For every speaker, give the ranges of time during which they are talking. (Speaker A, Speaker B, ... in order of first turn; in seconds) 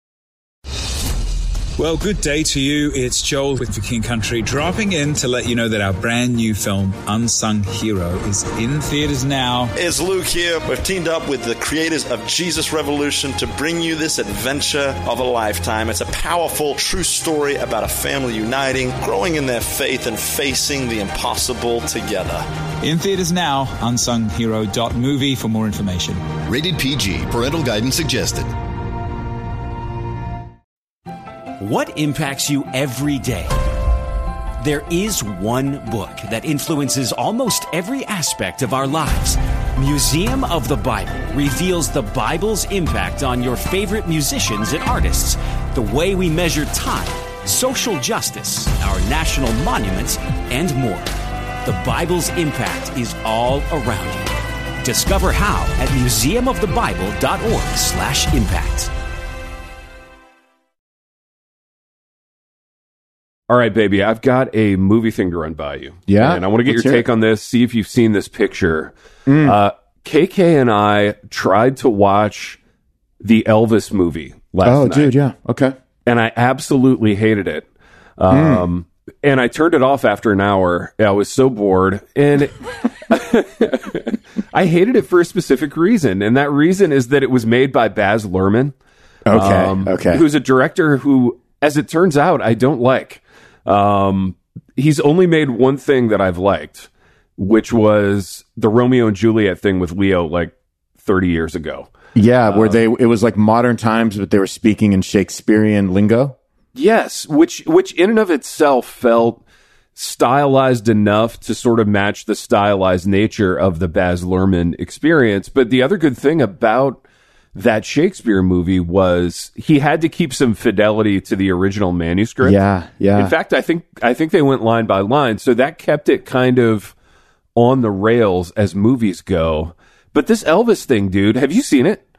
Speaker A: 1.8-9.7, 22.8-26.2
Speaker B: 9.8-22.4
Speaker C: 26.4-28.5
Speaker D: 31.6-33.5, 34.6-51.1, 51.6-54.3, 54.8-58.9
Speaker E: 63.5-72.6, 73.2-75.1, 76.0-77.7, 78.2-88.7, 89.3-102.8, 106.7-109.4, 110.0-117.0, 117.5-122.6, 123.1-126.9, 127.5-132.0
Speaker F: 66.1-67.0, 69.3-69.6, 74.6-75.8, 78.3-78.7, 89.3-90.2, 102.1-106.3, 122.4-123.3